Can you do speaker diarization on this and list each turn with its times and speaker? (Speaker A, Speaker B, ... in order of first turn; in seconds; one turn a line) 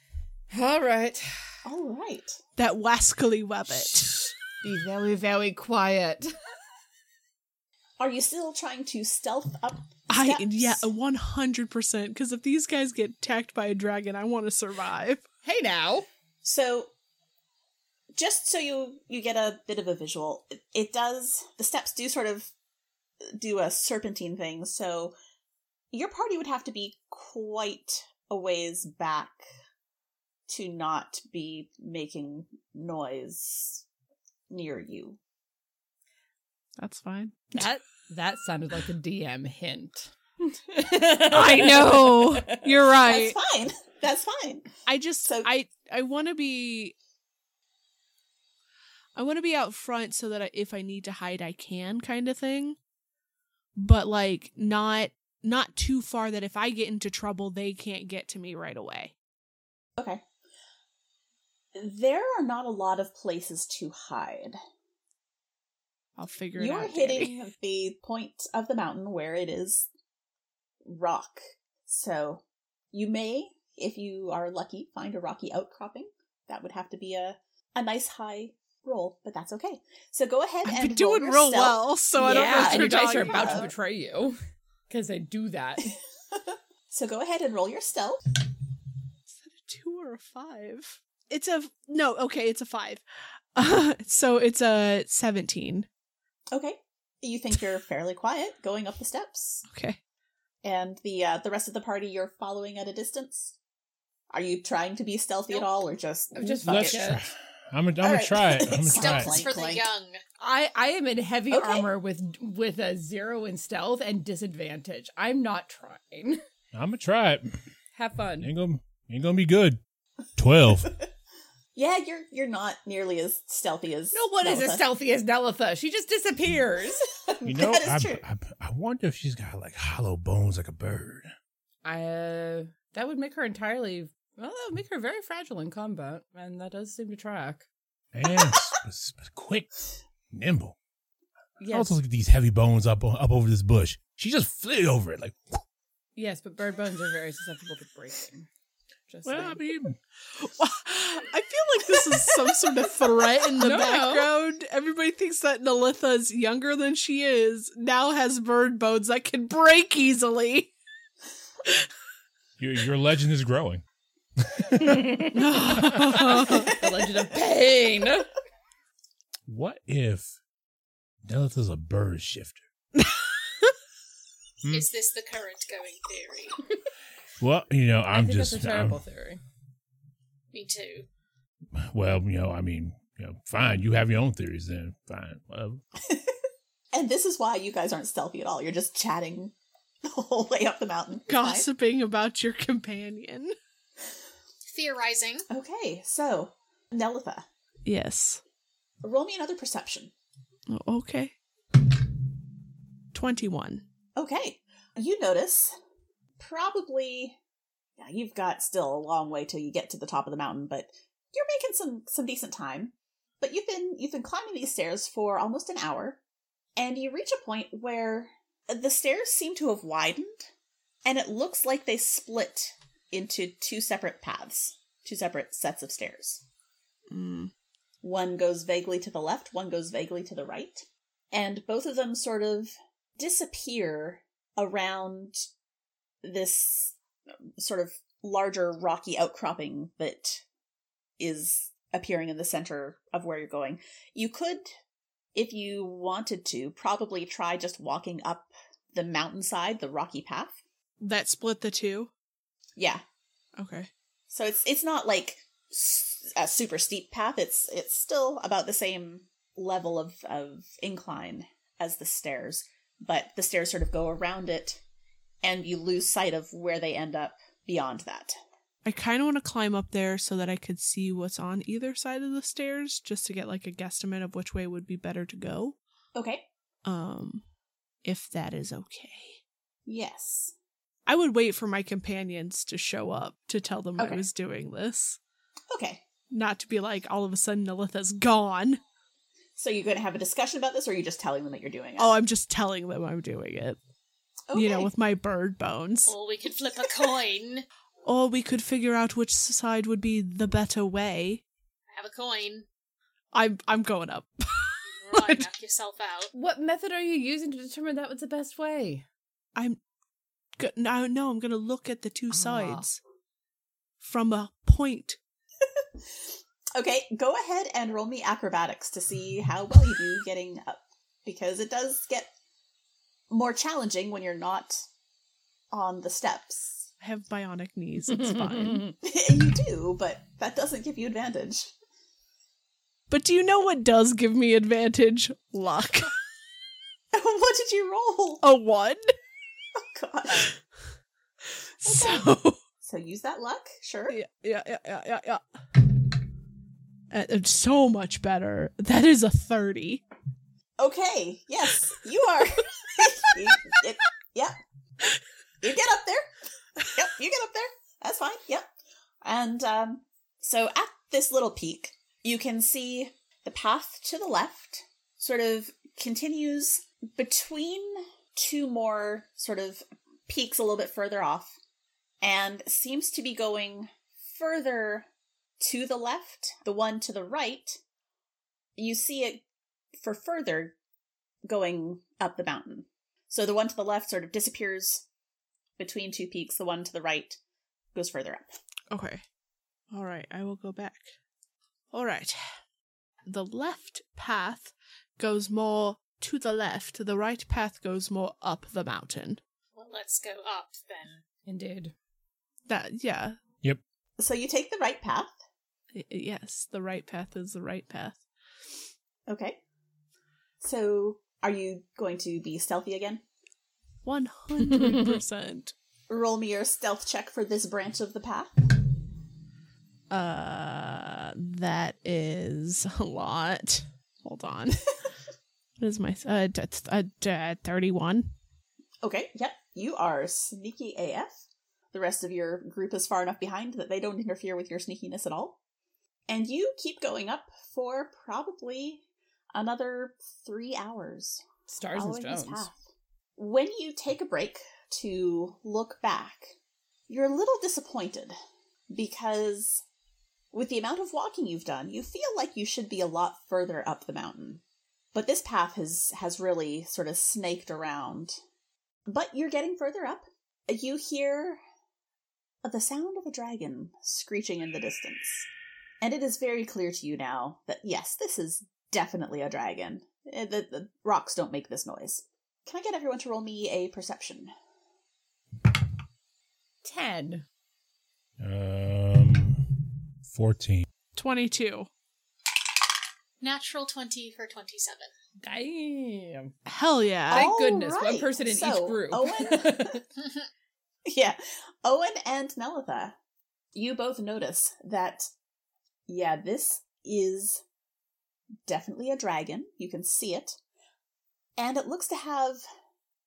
Speaker A: 0.5-1.5
Speaker B: 1.6-2.4
Speaker C: 2.6-4.3
Speaker A: 4.6-6.3
Speaker B: 8.0-10.9
Speaker C: 10.1-15.2
Speaker A: 15.4-16.1
Speaker B: 16.4-16.9
Speaker B: 18.1-22.5
Speaker B: 23.3-25.1
Speaker B: 25.9-29.4
Speaker B: 30.5-33.9
Speaker B: 34.5-35.2
Speaker C: 36.8-37.7
Speaker A: 37.5-42.8
Speaker C: 41.2-43.4
Speaker B: 42.9-44.7
Speaker C: 44.9-47.0
Speaker C: 49.1-52.8
Speaker C: 53.8-59.1
Speaker B: 60.0-60.2
Speaker B: 61.8-64.6
Speaker C: 66.2-67.4
Speaker B: 66.6-69.9
Speaker B: 70.8-83.7
Speaker C: 80.7-83.7
Speaker A: 82.2-85.9
Speaker B: 86.4-88.2
Speaker C: 89.3-93.0
Speaker C: 93.5-95.9
Speaker B: 96.5-99.7
Speaker C: 99.7-100.0
Speaker B: 100.6-103.6
Speaker B: 104.3-107.2
Speaker A: 106.3-107.2
Speaker D: 106.7-109.4
Speaker B: 108.0-109.9
Speaker E: 108.9-110.2
Speaker A: 110.4-116.4
Speaker B: 111.5-111.9
Speaker D: 116.7-117.5
Speaker A: 118.0-118.5
Speaker D: 118.4-119.8
Speaker D: 120.4-120.9
Speaker B: 121.8-124.8
Speaker A: 124.1-127.1
Speaker B: 127.3-128.2
Speaker D: 127.5-131.3
Speaker A: 131.8-137.7
Speaker D: 138.1-140.8
Speaker A: 141.6-142.0
Speaker D: 141.7-145.4
Speaker A: 146.2-148.5
Speaker A: 149.1-149.6
Speaker D: 149.2-150.0
Speaker C: 150.3-160.7
Speaker A: 153.6-154.3
Speaker D: 162.6-163.8
Speaker D: 164.4-166.2
Speaker A: 164.8-168.3
Speaker C: 165.3-166.9
Speaker D: 169.5-170.3
Speaker D: 171.3-172.6
Speaker C: 173.0-173.7
Speaker E: 174.7-176.6
Speaker D: 177.4-179.0
Speaker A: 178.1-179.4
Speaker E: 180.5-181.1
Speaker D: 181.8-185.8
Speaker B: 186.0-186.3
Speaker B: 186.9-191.7
Speaker C: 191.3-193.6
Speaker E: 194.7-195.4
Speaker B: 195.5-197.4
Speaker C: 197.9-198.4
Speaker B: 199.0-200.1
Speaker C: 200.7-201.3
Speaker C: 203.1-203.8
Speaker B: 204.2-205.8
Speaker B: 206.4-207.4
Speaker B: 208.0-216.2
Speaker B: 216.8-220.5
Speaker B: 221.1-226.4
Speaker C: 227.1-227.5
Speaker B: 228.0-235.5
Speaker B: 236.2-237.0
Speaker B: 237.6-240.4
Speaker B: 241.2-244.7
Speaker B: 245.3-250.5
Speaker C: 251.0-252.1
Speaker B: 252.8-253.0
Speaker C: 253.6-253.9
Speaker B: 254.3-264.8
Speaker B: 265.4-268.4
Speaker C: 268.9-275.8
Speaker B: 276.1-276.5
Speaker C: 276.9-277.4
Speaker C: 278.0-279.4
Speaker B: 279.9-280.5
Speaker C: 281.1-285.2
Speaker B: 284.0-284.2
Speaker B: 285.7-286.1
Speaker C: 286.3-288.8
Speaker B: 289.6-292.2
Speaker C: 292.0-293.8
Speaker B: 294.5-294.9
Speaker C: 294.5-296.1
Speaker E: 296.1-297.7
Speaker C: 298.1-301.4
Speaker E: 301.9-302.7
Speaker C: 303.3-305.5
Speaker E: 305.0-306.3
Speaker A: 306.3-309.1
Speaker C: 310.6-313.0
Speaker A: 312.3-312.9
Speaker C: 314.0-315.2
Speaker B: 316.1-322.3
Speaker B: 323.3-324.9
Speaker B: 325.7-326.9
Speaker C: 327.0-328.9
Speaker A: 328.1-328.9
Speaker B: 329.0-331.7
Speaker C: 333.1-336.1
Speaker B: 337.1-338.5
Speaker C: 338.4-339.1
Speaker B: 339.8-340.5
Speaker C: 341.5-342.6
Speaker B: 341.8-344.2
Speaker C: 344.1-345.4
Speaker C: 347.1-350.0
Speaker B: 350.8-354.6
Speaker B: 355.6-356.3
Speaker B: 356.8-358.7
Speaker B: 359.2-371.6
Speaker B: 372.2-375.1
Speaker B: 375.6-377.8
Speaker B: 378.8-379.4
Speaker B: 380.0-380.8
Speaker B: 381.4-385.0
Speaker B: 385.8-387.4
Speaker B: 387.9-388.5
Speaker C: 388.9-389.2
Speaker C: 389.9-391.1
Speaker C: 391.9-392.4
Speaker C: 393.3-399.4
Speaker E: 399.8-401.2
Speaker A: 401.4-401.9
Speaker C: 402.7-403.4
Speaker B: 404.2-405.3
Speaker C: 405.9-408.2
Speaker B: 409.3-409.6
Speaker B: 410.6-413.2
Speaker C: 414.0-415.7
Speaker B: 416.1-418.5
Speaker C: 420.1-425.0
Speaker C: 425.8-428.3
Speaker B: 429.0-431.3
Speaker B: 431.9-435.6
Speaker B: 436.3-442.8
Speaker A: 441.7-442.7
Speaker B: 443.4-446.6
Speaker B: 447.1-448.4
Speaker B: 448.9-449.8
Speaker B: 450.5-454.6
Speaker B: 455.1-458.4
Speaker B: 459.1-461.6
Speaker B: 462.6-465.5
Speaker B: 466.0-474.5
Speaker A: 476.8-477.5
Speaker D: 478.4-480.9
Speaker C: 481.1-481.9
Speaker E: 483.4-485.1
Speaker A: 485.4-486.5
Speaker C: 486.7-487.5
Speaker B: 487.3-490.0
Speaker A: 487.3-490.0
Speaker B: 491.1-493.1
Speaker B: 493.8-495.3
Speaker B: 496.1-497.6
Speaker B: 498.7-500.6
Speaker B: 501.6-502.6